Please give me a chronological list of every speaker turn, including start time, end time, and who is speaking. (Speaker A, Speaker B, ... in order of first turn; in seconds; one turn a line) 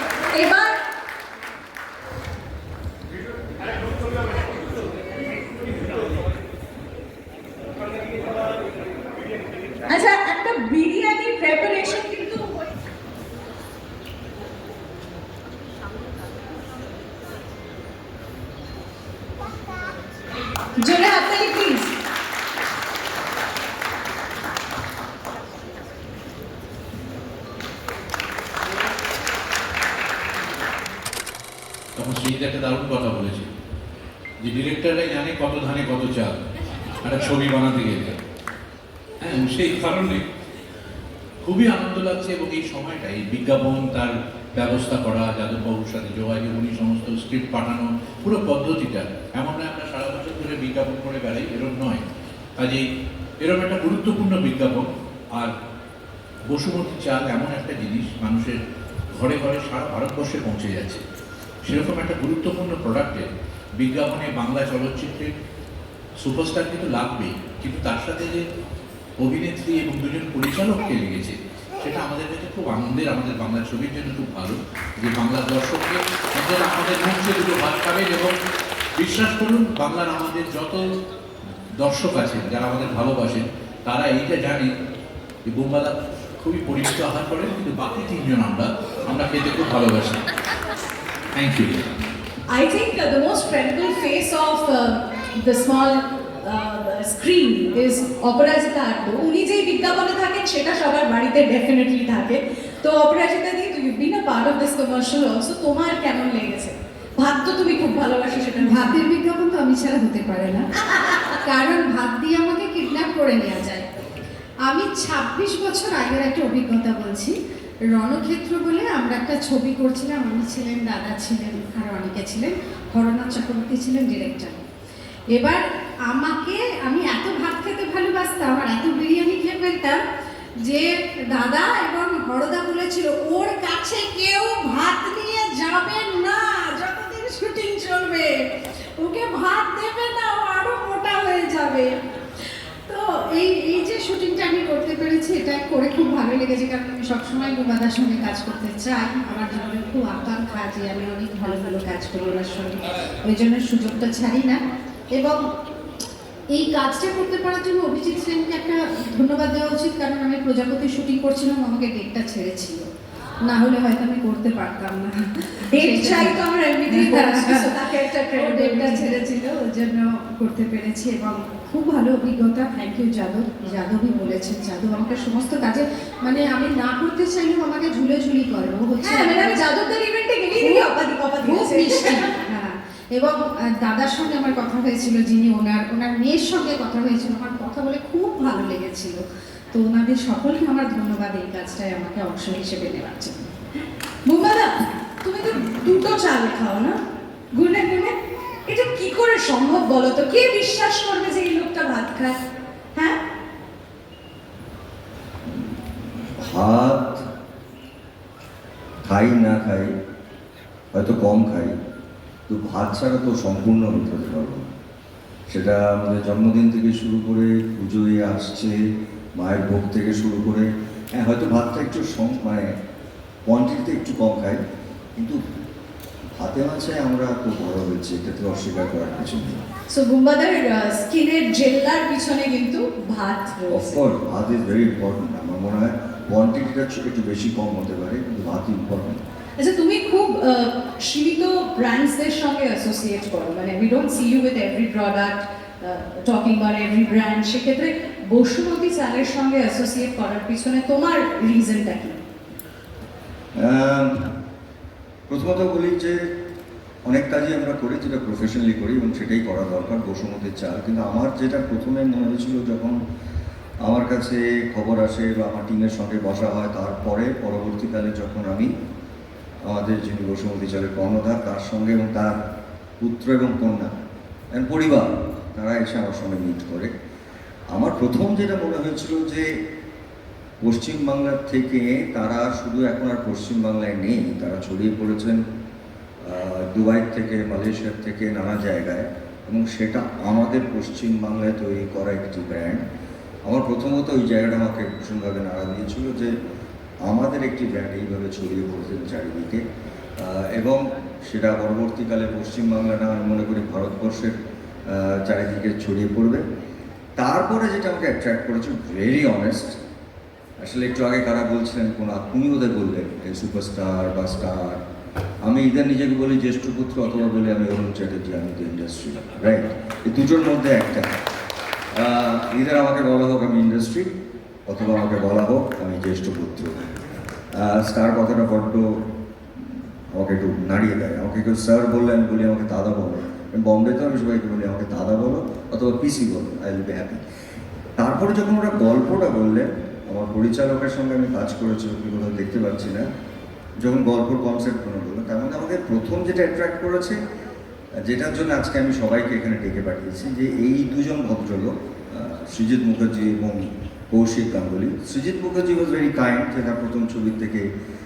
Speaker A: 0.3-0.8
Speaker A: 9.9-12.6
Speaker A: 20.8-21.9
Speaker B: 31.9-33.5
Speaker B: 34.4-36.4
Speaker B: 37.0-38.2
Speaker B: 39.2-40.2
Speaker B: 41.4-52.0
Speaker B: 52.6-52.8
Speaker B: 53.4-55.5
Speaker B: 56.5-58.6
Speaker B: 59.1-61.0
Speaker B: 61.6-63.3
Speaker B: 63.8-65.3
Speaker B: 66.2-68.4
Speaker B: 69.2-78.3
Speaker B: 79.0-80.8
Speaker B: 81.8-84.7
Speaker B: 85.5-90.2
Speaker B: 91.3-91.9
Speaker A: 92.5-109.0
Speaker C: 108.7-110.7
Speaker C: 111.4-113.9
Speaker C: 114.7-117.3
Speaker C: 117.9-124.6
Speaker C: 125.3-130.0
Speaker C: 130.7-138.4
Speaker C: 139.0-141.9
Speaker C: 142.9-154.6
Speaker C: 155.1-155.4
Speaker C: 156.5-162.9
Speaker C: 163.5-166.3
Speaker A: 165.7-169.2
Speaker C: 167.1-167.7
Speaker C: 168.3-179.6
Speaker A: 179.0-182.3
Speaker C: 181.5-189.2
Speaker C: 189.7-193.4
Speaker A: 194.2-196.9
Speaker A: 197.6-198.1
Speaker A: 198.7-202.4
Speaker D: 205.5-205.8
Speaker D: 206.4-207.2
Speaker D: 209.0-209.9
Speaker D: 210.9-211.7
Speaker D: 212.5-214.7
Speaker D: 215.5-218.8
Speaker D: 219.4-222.7
Speaker D: 223.4-224.6
Speaker D: 226.4-229.6
Speaker A: 229.9-234.0
Speaker D: 233.7-239.2
Speaker A: 239.6-252.2
Speaker D: 253.6-254.3
Speaker D: 255.3-256.2
Speaker D: 257.1-263.0
Speaker D: 263.9-268.7
Speaker D: 269.7-272.4
Speaker D: 273.0-273.9
Speaker D: 274.5-276.9
Speaker D: 277.7-279.5
Speaker D: 280.6-285.4
Speaker D: 286.2-292.8
Speaker D: 293.5-296.3
Speaker D: 297.1-299.6
Speaker D: 300.2-304.4
Speaker D: 304.9-306.4
Speaker D: 307.2-309.8
Speaker D: 310.6-314.8
Speaker D: 315.4-321.1
Speaker D: 321.9-324.1
Speaker D: 324.7-327.0
Speaker D: 327.5-329.0
Speaker D: 330.1-337.2
Speaker D: 338.0-343.1
Speaker D: 343.8-347.2
Speaker D: 348.0-357.6